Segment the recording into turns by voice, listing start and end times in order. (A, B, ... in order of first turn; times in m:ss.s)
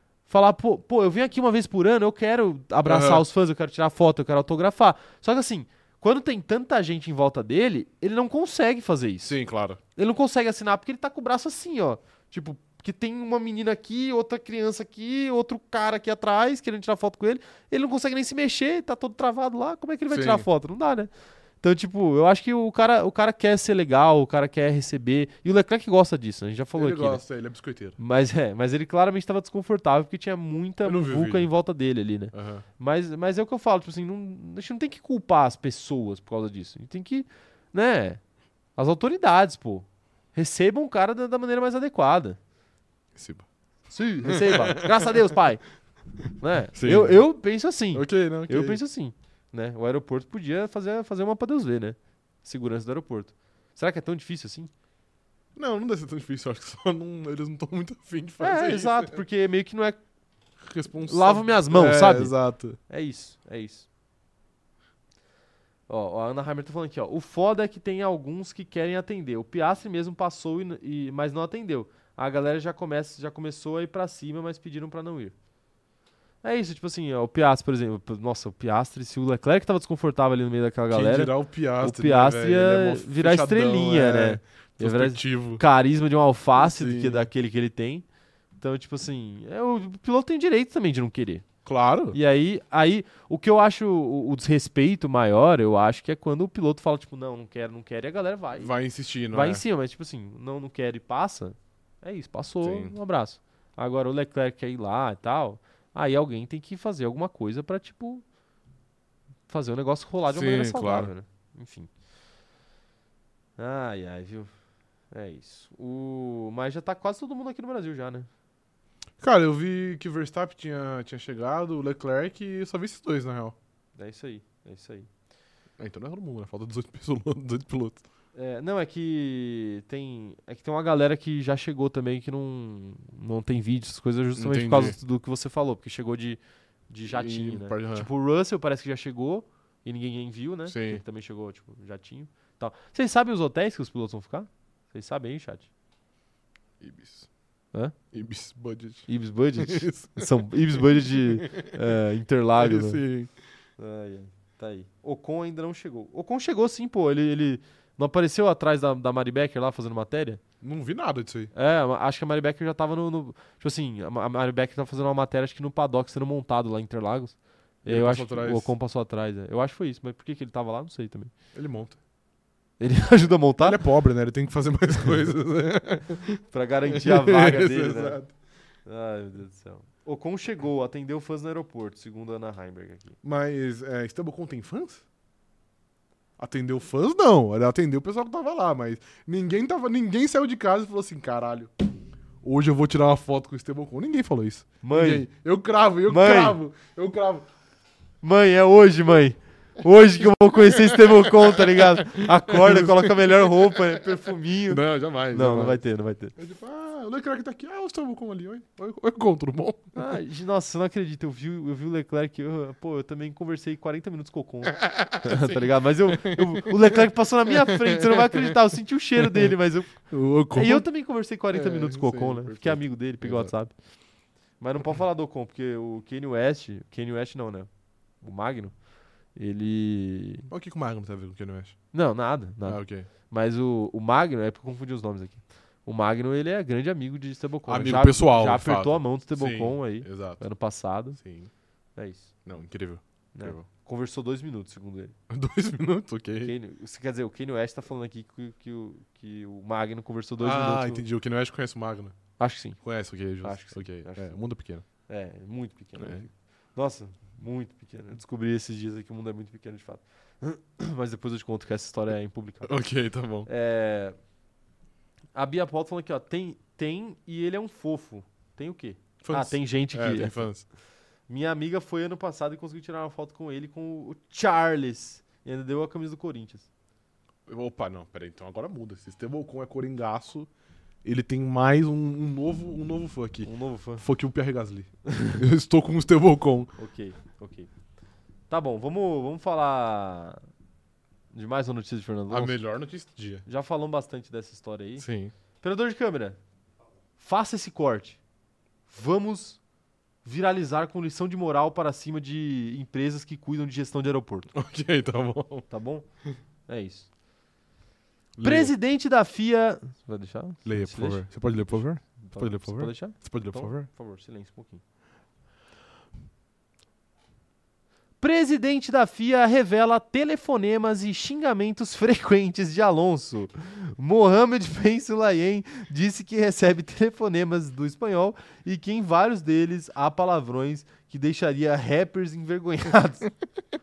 0:00.3-0:09.3 A
0:02.8-0:03.2 B
0:09.2-0:09.8 B
0:10.0-0:21.1 A
0:20.1-0:20.5 B
0:21.6-0:27.2 A
0:26.8-0:28.0 B
0:28.0-0:38.2 A
0:30.8-0:31.5 B
0:32.3-0:32.6 B
0:38.8-0:42.4 A
0:43.2-0:43.4 B
0:43.9-0:45.6 A
0:44.2-0:45.3 B
0:46.4-0:54.7 A
0:46.7-0:47.2 B
0:47.9-0:48.8 B
0:55.6-0:59.2 B
0:58.4-1:00.0 A
1:00.6-1:02.8 B
1:01.1-1:02.3 A
1:02.9-1:03.9 A
1:05.9-1:15.3 A
1:16.4-1:28.0 A
1:20.9-1:25.6 B
1:26.6-1:27.3 B
1:28.6-1:31.4 A
1:31.6-1:32.2 B
1:32.1-1:38.7 A
1:38.6-1:39.6 B
1:39.3-1:48.2 A
1:42.6-1:42.9 B
1:49.5-1:51.9 A
1:50.3-1:51.1 B
1:53.6-1:54.5 A
1:55.1-1:58.3 A
1:59.2-2:03.6 B
2:04.0-2:05.1 A
2:05.8-2:08.0 B
2:08.3-2:25.7 A
2:14.4-2:15.0 B
2:17.0-2:18.1 B
2:20.7-2:21.0 B
2:26.8-2:27.3 B
2:28.1-2:29.1 B
2:29.1-2:33.0 A
2:29.6-2:31.8 B
2:32.6-2:33.3 B
2:33.8-2:40.4 A
2:40.6-2:41.5 B
2:41.5-2:51.3 A
2:47.8-2:48.7 B
2:51.5-2:52.0 B
2:52.8-2:53.8 A
2:53.6-2:58.3 B
2:56.5-2:58.2 A
2:58.8-3:03.2 A
3:03.2-3:05.0 B
3:06.4-3:11.7 B
3:12.4-3:17.4 B
3:14.8-3:15.3 A
3:16.1-3:16.6 A
3:18.2-3:26.3 A
3:20.2-3:24.0 B
3:24.7-3:25.8 B
3:26.4-3:30.0 B
3:29.9-3:43.7 A
3:34.7-3:37.0 B
3:37.6-3:38.5 B
3:39.2-3:39.5 B
3:40.1-3:40.9 B
3:41.5-3:43.5 B
3:44.6-3:47.7 A
3:48.2-3:48.7 A
3:49.4-3:50.5 A
3:50.5-3:51.8 B
3:51.9-4:01.2 A
3:52.6-3:53.1 B
3:57.7-4:00.4 B
4:01.2-4:01.5 B
4:02.0-4:02.3 A
4:02.4-4:03.6 B
4:03.3-4:05.1 A
4:05.3-4:06.5 B
4:06.4-4:11.0 A
4:10.4-4:12.2 B
4:12.4-4:12.8 A
4:12.8-4:14.8 B
4:13.4-4:14.3 A
4:15.0-4:22.7 A
4:16.0-4:16.2 B
4:22.6-4:23.5 B
4:23.4-4:24.1 A
4:25.3-4:30.4 A
4:29.2-4:30.6 B
4:31.3-4:36.7 A
4:37.5-4:40.5 B
4:41.0-4:46.7 B
4:43.4-4:44.0 A
4:45.1-4:45.4 A
4:46.8-4:47.7 A
4:48.5-4:50.4 A
4:51.3-4:52.6 A
4:52.3-4:53.4 B
4:53.4-4:55.0 A
4:55.0-4:55.3 B
4:55.6-4:56.4 A
4:57.2-4:58.2 A
4:58.9-4:59.6 A
5:00.2-5:04.5 A
5:04.5-5:05.7 B
5:05.7-5:06.0 A
5:06.7-5:07.1 A
5:08.4-5:08.7 B
5:08.4-5:11.6 A
5:10.6-5:13.9 B
5:12.2-5:14.8 A
5:18.2-5:33.3 A